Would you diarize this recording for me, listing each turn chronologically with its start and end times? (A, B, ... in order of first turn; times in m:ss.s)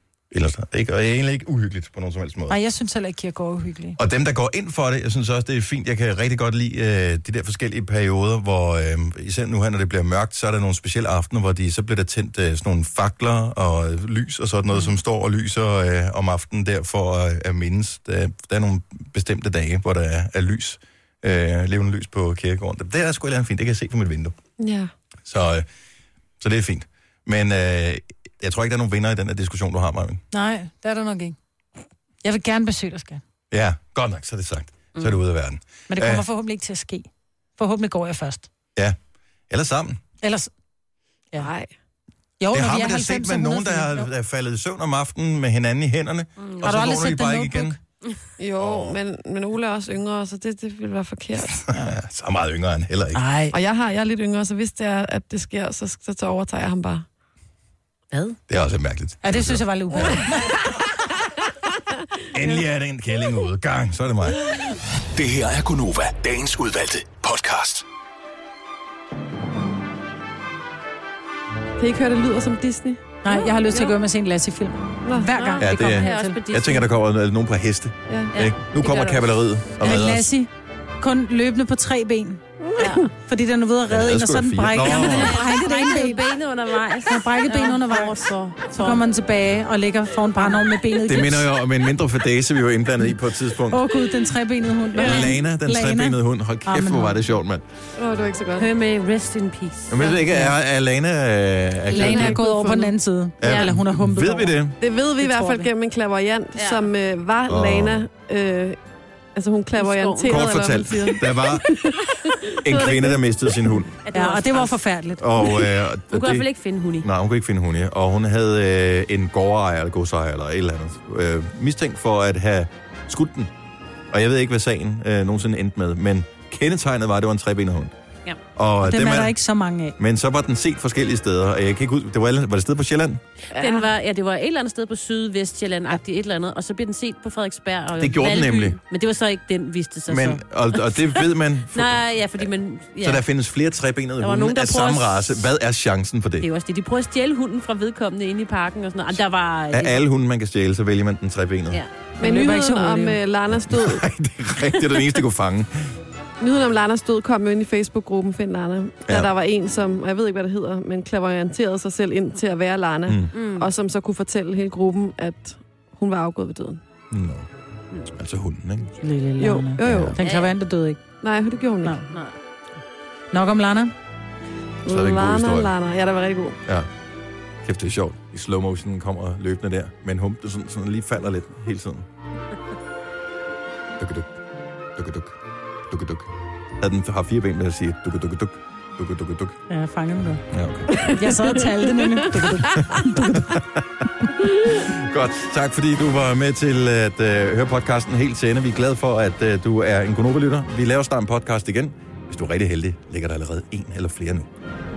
0:00.3-0:02.6 A
0:02.5-0:04.0 B
0:04.0-0:24.4 A
0:24.6-0:24.9 C
0:25.3-0:25.7 A
0:26.4-0:30.2 A
0:30.3-0:31.4 B
0:32.2-0:33.2 B
0:33.5-0:36.2 A
0:35.9-0:38.5 B
0:39.5-0:40.0 A
0:40.2-0:40.5 B
0:41.4-0:41.7 C
0:42.4-0:44.1 B
0:42.5-0:47.8 A
0:46.4-0:46.6 D
0:46.6-0:47.8 B
0:48.4-0:51.6 C
0:48.6-0:49.0 A
0:51.5-0:53.2 A
0:53.1-0:53.6 B
0:53.5-0:57.1 C
0:58.1-0:58.4 D
0:58.5-1:00.3 A
0:59.2-1:00.6 B
1:02.3-1:04.6 A
1:05.2-1:07.8 E
1:11.8-1:14.0 C
1:13.2-1:16.4 B
1:15.0-1:15.3 C
1:15.3-1:16.9 D
1:15.6-1:20.3 A
1:18.3-1:19.2 D
1:19.8-1:26.2 B
1:22.6-1:23.0 C
1:22.8-1:23.1 D
1:23.9-1:25.4 A
1:24.8-1:29.0 D
1:27.1-1:31.5 B
1:31.0-1:33.9 A
1:33.7-1:37.2 B
1:35.0-1:37.6 A
1:38.0-1:38.7 C
1:38.6-1:40.2 D
1:39.9-1:42.4 A
1:41.9-1:44.6 B
1:41.9-1:42.9 C
1:43.4-1:44.8 A
1:44.8-1:48.8 C
1:45.2-1:45.7 B
1:46.6-1:46.9 D
1:47.5-1:48.1 A
1:49.4-1:53.2 C
1:49.8-1:50.5 D
1:50.2-1:51.7 A
1:52.6-1:53.9 A
1:54.0-1:54.8 D
1:54.1-1:55.5 B
1:55.2-1:56.5 A
1:56.1-1:57.1 D
1:57.0-2:03.5 A
2:04.1-2:07.9 A
2:08.6-2:09.4 A
2:08.8-2:10.0 B
2:10.0-2:13.2 A
2:13.5-2:23.2 D
2:13.6-2:13.9 C
2:18.0-2:18.8 A
2:20.1-2:22.5 A
2:23.0-2:26.5 A
2:24.2-2:25.4 D
2:26.4-2:30.0 D
2:29.1-2:31.8 A
2:32.2-2:33.2 B
2:32.2-2:34.0 C
2:33.5-2:35.9 A
2:36.4-2:46.8 C
2:39.1-2:39.3 A
2:43.1-2:43.3 A
2:43.3-2:43.7 D
2:47.1-2:47.5 A
2:48.1-2:48.9 A
2:49.0-2:51.0 B
2:49.4-2:50.2 C
2:49.8-2:50.2 A
2:50.2-2:50.5 D
2:51.2-2:52.0 C
2:52.1-2:52.3 D
2:53.3-2:53.9 B
2:54.8-2:56.6 C
2:54.9-2:55.7 A
2:56.6-2:56.9 A
2:57.6-3:02.1 A
3:04.0-3:04.4 A
3:05.0-3:09.6 A
3:09.7-3:10.4 B
3:10.5-3:11.0 A
3:10.9-3:12.6 C
3:11.0-3:13.6 B
3:12.7-3:14.1 A
3:14.6-3:24.5 A